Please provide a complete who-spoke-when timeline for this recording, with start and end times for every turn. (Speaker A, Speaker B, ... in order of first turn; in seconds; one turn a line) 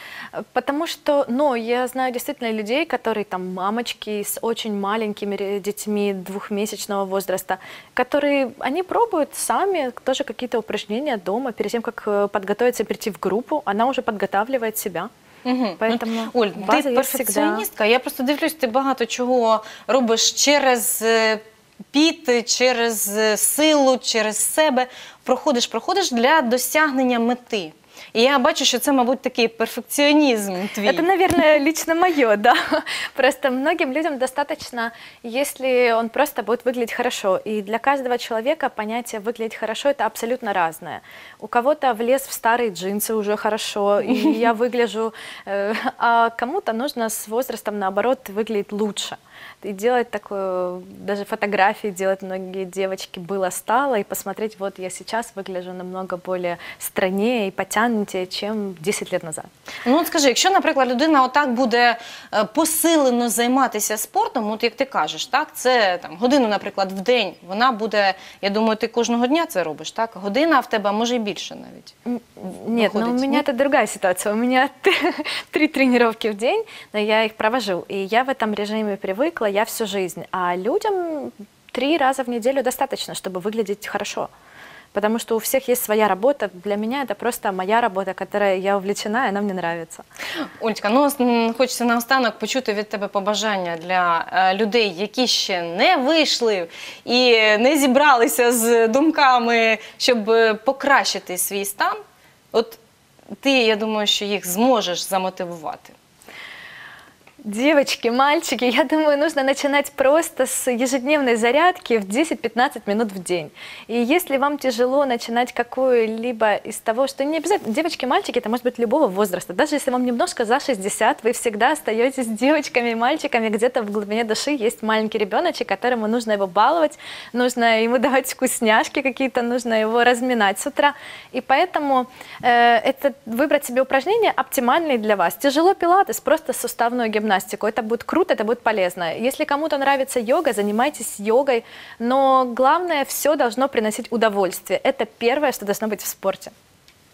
Speaker A: 0.4-15.1
Speaker B: 15.4-31.1
Speaker A: 15.8-17.6
Speaker A: 30.9-59.5
Speaker B: 59.9-71.9
Speaker A: 72.0-84.3
Speaker B: 72.7-73.5
Speaker A: 84.9-90.0
Speaker B: 90.6-102.0
Speaker B: 102.5-102.8
Speaker B: 103.4-106.0
Speaker A: 107.4-146.5